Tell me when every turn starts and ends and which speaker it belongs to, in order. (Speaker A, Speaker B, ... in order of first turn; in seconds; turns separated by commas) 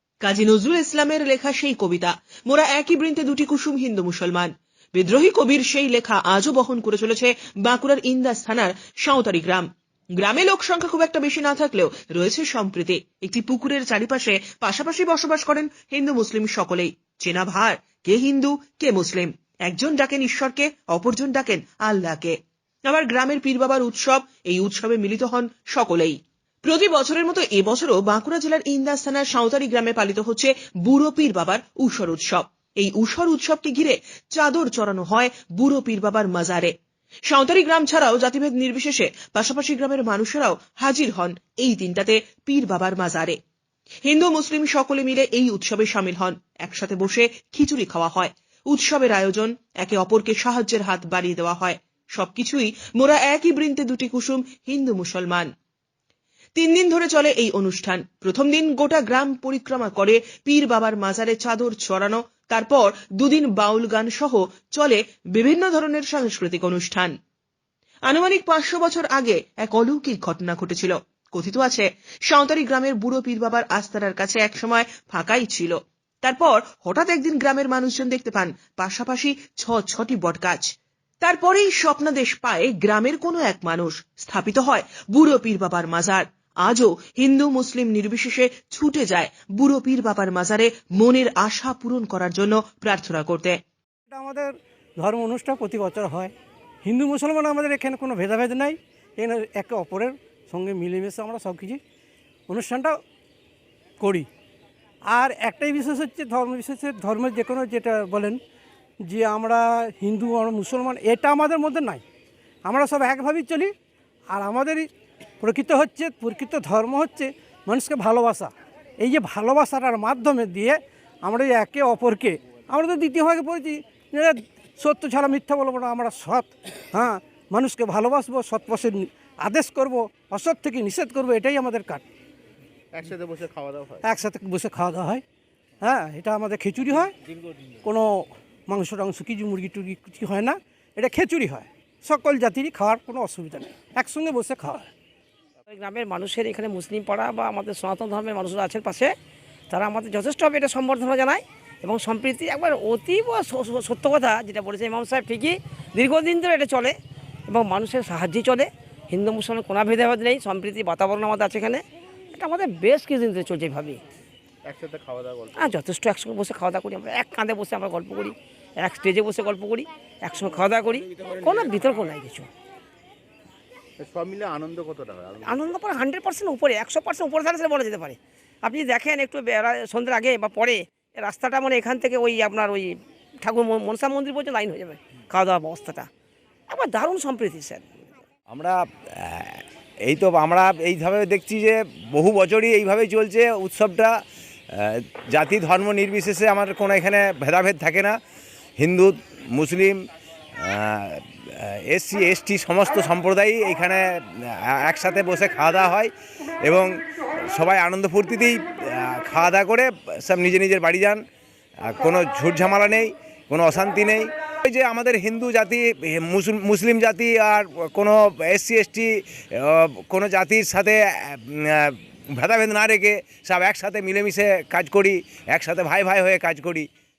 Speaker A: 0.2-36.7, Speaker A: 37.3-43.4, Speaker A: 44.0-55.5, Speaker A: 56.6-67.1, Speaker A: 68.1-93.6, Speaker B: 94.1-96.3, Speaker B: 96.8-101.8, Speaker B: 102.5-103.0, Speaker B: 104.0-104.3, Speaker B: 105.1-108.4, Speaker B: 109.0-112.0, Speaker B: 112.7-113.7, Speaker B: 114.3-114.9, Speaker B: 115.4-132.1, Speaker C: 132.9-134.1, Speaker B: 134.1-135.2, Speaker B: 135.8-137.1, Speaker B: 137.8-144.9, Speaker D: 145.7-149.1, Speaker D: 149.7-157.0, Speaker D: 157.5-164.0, Speaker C: 164.7-165.8, Speaker D: 165.6-172.5, Speaker C: 174.0-175.7, Speaker D: 175.5-186.1, Speaker D: 186.7-187.9, Speaker E: 188.5-194.2, Speaker E: 194.7-198.2, Speaker E: 198.8-200.0, Speaker E: 200.6-206.1, Speaker E: 206.6-206.9, Speaker E: 207.5-211.2, Speaker E: 211.9-226.9